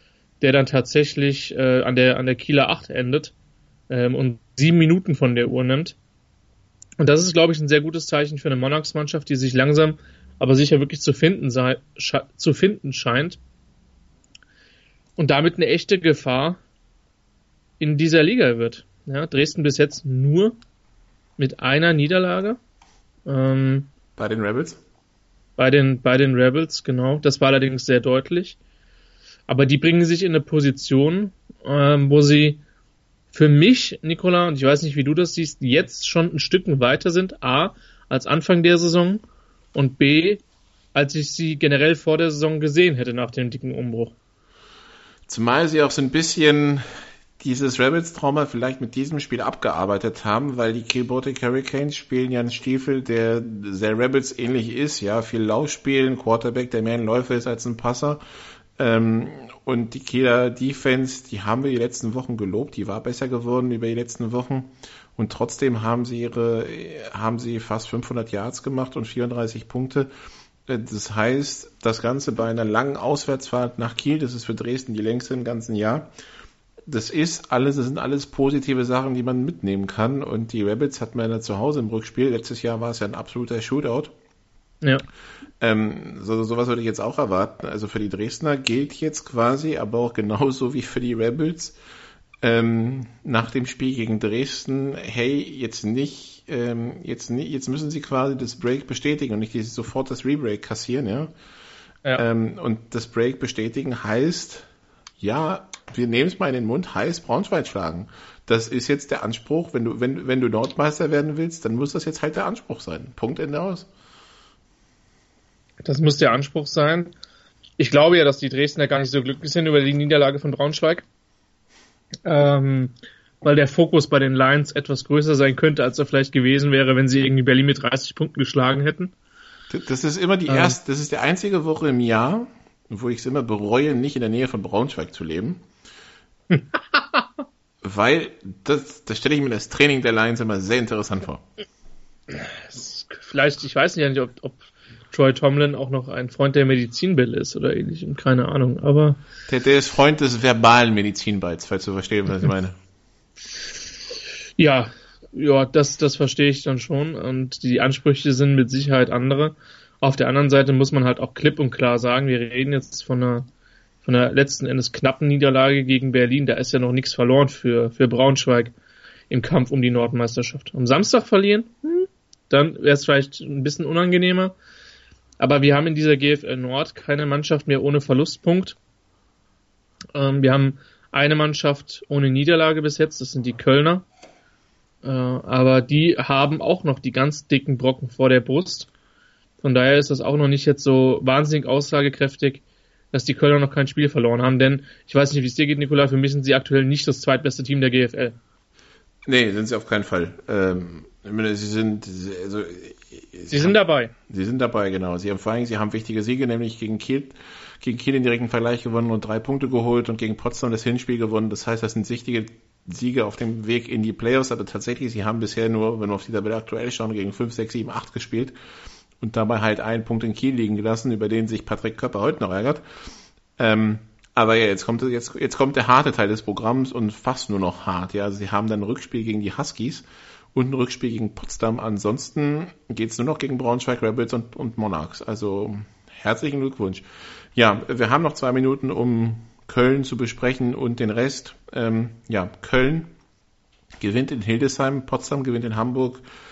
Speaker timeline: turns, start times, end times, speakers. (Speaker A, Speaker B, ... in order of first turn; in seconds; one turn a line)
Speaker A: 0.4-3.3
Speaker A: 3.9-5.9
Speaker A: 7.0-13.4
Speaker A: 15.2-16.6
Speaker A: 17.8-20.6
Speaker A: 21.4-22.6
Speaker A: 23.2-23.9
Speaker B: 24.2-24.8
Speaker A: 25.6-28.6
Speaker A: 29.5-32.6
Speaker A: 33.3-39.2
Speaker A: 39.7-40.4
Speaker A: 40.9-44.1
Speaker B: 45.3-46.8
Speaker B: 47.4-58.2
Speaker B: 58.8-70.1
Speaker B: 70.7-76.1
Speaker B: 76.9-84.1
Speaker B: 85.6-91.8
Speaker B: 92.4-101.3
Speaker B: 102.1-104.7
Speaker B: 105.2-113.9
Speaker A: 115.8-117.1
Speaker A: 117.8-121.0
Speaker A: 122.2-129.1
Speaker B: 129.7-135.6
Speaker A: 130.5-130.8
Speaker B: 137.8-141.4
Speaker A: 142.4-144.6
Speaker A: 145.1-149.2
Speaker B: 149.5-152.7
Speaker A: 154.6-163.5
Speaker A: 164.0-168.7
Speaker A: 169.3-174.5
Speaker A: 175.4-178.8
Speaker A: 180.1-184.0
Speaker A: 185.0-188.9
Speaker A: 189.6-198.3
Speaker B: 199.2-203.8
Speaker A: 203.5-204.1
Speaker B: 204.3-218.6
Speaker B: 219.2-222.8
Speaker B: 223.6-237.0
Speaker B: 237.6-243.1
Speaker B: 244.0-246.2